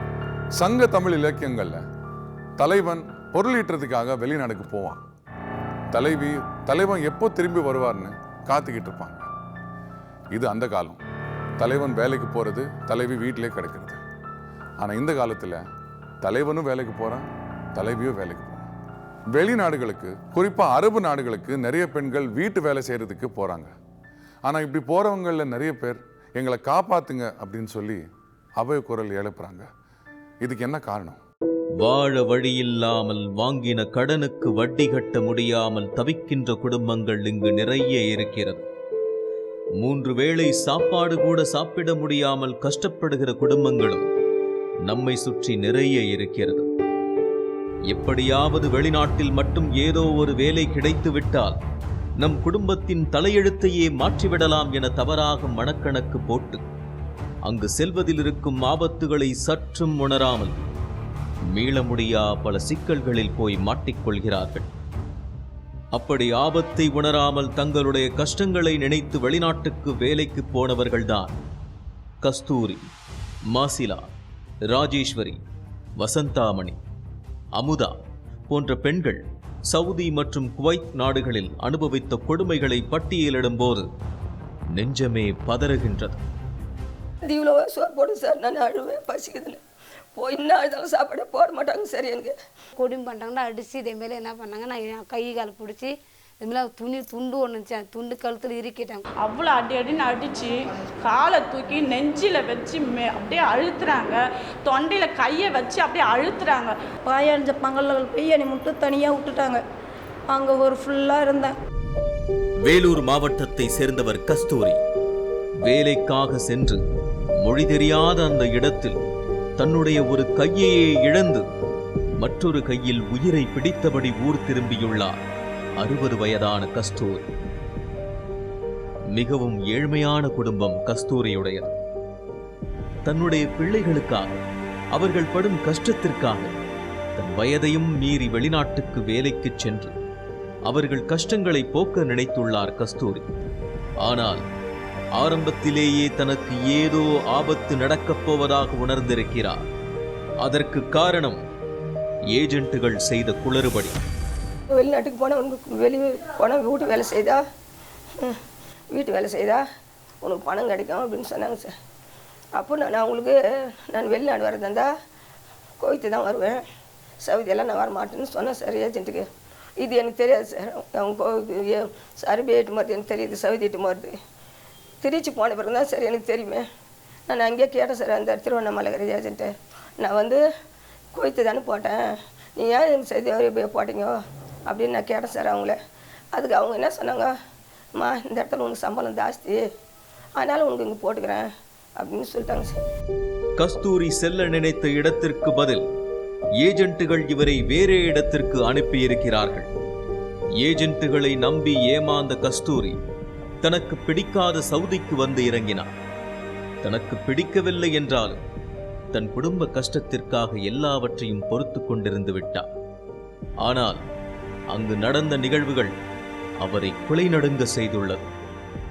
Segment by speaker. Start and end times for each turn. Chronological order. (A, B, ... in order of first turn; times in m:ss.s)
0:00.6-0:01.8 A
0:02.6-0:05.0 A
0:05.9-0:09.3 A
0:10.3-0:11.0 A
0:11.6-0:14.0 A
0:14.8-0:15.6 A
0:16.2-0:17.2 A
0:17.8-0:18.7 A
0:19.3-0:23.7 A
0:24.4-0:28.0 A
0:28.6-0:29.7 A
0:30.4-0:31.2 A
0:31.8-0:38.6 B
0:39.8-0:44.1 B
0:44.8-0:46.7 B
0:47.9-0:51.6 B
0:52.2-0:56.6 B
0:57.4-1:00.6 B
1:01.5-1:04.7 B
1:05.9-1:11.3 B
1:12.2-1:12.9 B
1:13.5-1:14.1 B
1:14.7-1:15.4 B
1:16.0-1:16.8 B
1:17.6-1:23.8 B
1:24.7-1:26.2 B
1:27.2-1:29.6 C
1:30.2-1:32.3 C
1:32.8-1:39.0 D
1:39.2-1:46.7 E
1:47.1-1:49.6 F
1:50.3-1:51.5 F
1:52.6-1:54.8 B
1:55.6-1:56.8 B
1:57.4-1:59.0 B
1:59.6-2:01.4 B
2:02.2-2:05.2 B
2:05.8-2:07.3 B
2:09.1-2:11.7 B
2:13.0-2:14.4 B
2:14.9-2:16.5 B
2:17.2-2:19.9 B
2:20.6-2:23.2 B
2:24.0-2:24.4 B
2:25.2-2:29.6 B
2:30.4-2:31.4 B
2:32.3-2:34.0 B
2:34.7-2:37.4 C
2:38.9-2:39.6 C
2:40.2-2:41.7 C
2:42.6-2:43.4 C
2:43.9-2:44.9 C
2:45.8-2:46.6 C
2:47.2-2:49.3 C
2:49.8-2:54.1 C
2:55.0-2:56.6 C
2:57.3-3:00.4 C
3:01.1-3:04.1 C
3:04.7-3:05.8 C
3:06.3-3:07.3 C
3:08.0-3:09.6 C
3:10.4-3:11.5 C
3:12.0-3:12.8 C
3:13.6-3:15.8 B
3:16.6-3:19.7 B
3:20.6-3:23.0 B
3:23.6-3:25.9 B
3:26.8-3:28.4 B
3:29.1-3:32.7 B
3:33.6-3:34.0 B
3:34.7-3:35.9 B
3:36.6-3:38.2 B